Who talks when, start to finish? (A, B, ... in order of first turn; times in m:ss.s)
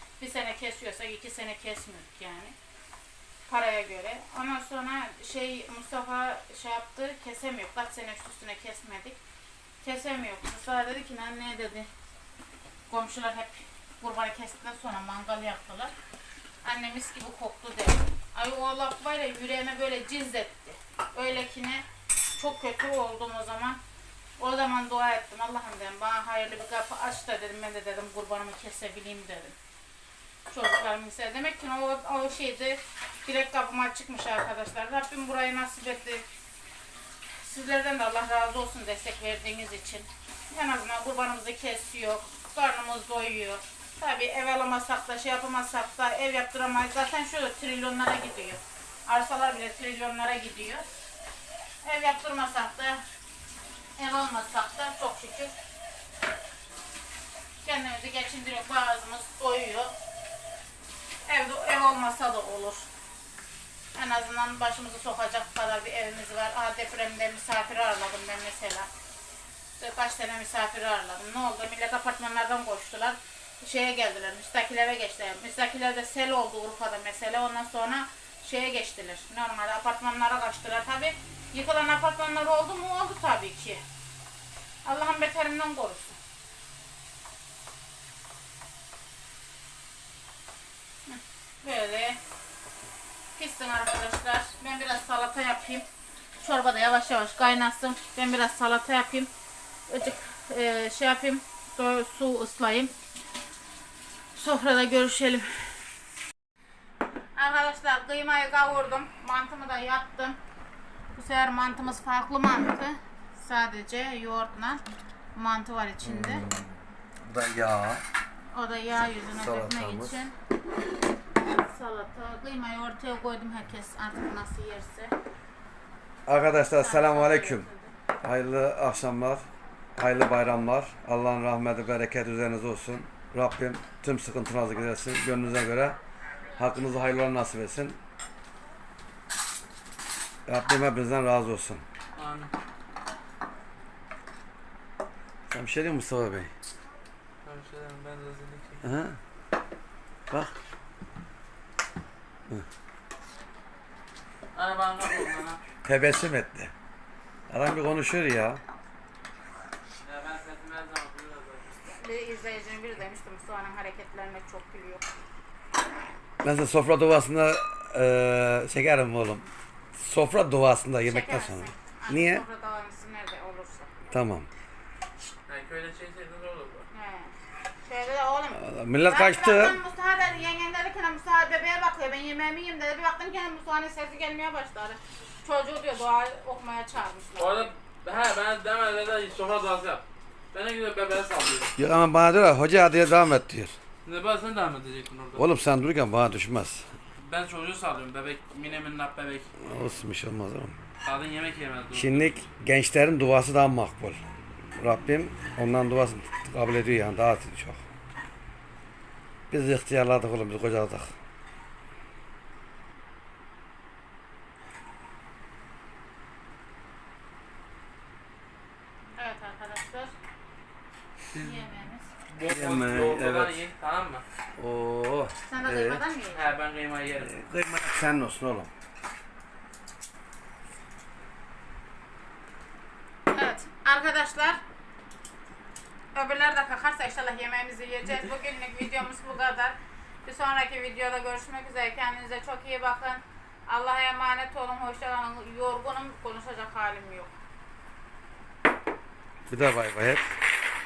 0:00.2-0:02.6 A
0:03.5-0:09.2 A
0:09.8-0:11.9 A
0:12.9-0:15.9 A
0:16.6-0:23.8 A
0:24.4-0:29.6 A
0:30.5-0:36.2 A
0:37.4-0:50.8 A
0:51.8-0:53.0 A
0:54.0-0:55.6 A
0:57.6-0:59.9 A
1:01.3-1:02.9 A
1:04.0-1:08.9 A
1:09.8-1:23.8 A
1:24.8-1:26.2 A
1:31.1-1:32.2 A
1:33.4-1:35.8 A
1:36.4-1:39.3 A
1:39.9-1:42.9 A
1:44.4-1:45.8 A
1:47.4-1:50.4 A
1:51.1-1:54.8 A
1:55.4-1:56.5 A
1:56.0-1:58.0 B
1:58.5-2:00.4 A
1:59.3-2:00.2 B
2:01.5-2:05.1 A
2:06.3-2:07.7 B
2:06.8-2:07.9 A
2:08.2-2:16.0 B
2:16.6-2:18.0 B
2:20.5-2:21.8 B
2:22.2-2:22.5 C
2:25.5-2:26.5 B
2:27.4-2:28.9 C
2:28.8-2:29.2 B
2:34.5-2:35.6 C
2:35.8-2:36.7 B
2:37.5-2:38.6 B
2:40.0-2:41.7 C
2:41.9-2:45.0 A
2:46.4-2:52.4 B
2:51.0-2:54.1 A
2:54.1-2:54.5 B
2:55.5-2:56.9 C
2:56.9-3:07.7 A
2:58.5-2:59.8 B
3:07.4-3:11.7 C
3:11.8-3:13.8 B
3:14.0-3:15.5 C
3:15.4-3:16.9 B
3:17.2-3:19.5 C
3:19.6-3:20.8 B
3:21.0-3:22.4 C
3:21.9-3:27.8 B
3:29.5-3:31.1 B
3:39.2-3:40.1 A
3:41.3-3:41.6 C
3:41.4-3:42.1 A
3:42.3-3:44.2 C
3:42.5-3:43.6 B
3:44.6-3:46.0 B
3:45.5-3:46.5 A
3:46.3-3:47.3 C
3:47.2-3:48.7 B
3:53.3-3:54.6 A
3:56.2-4:07.3 A
4:09.5-4:10.3 B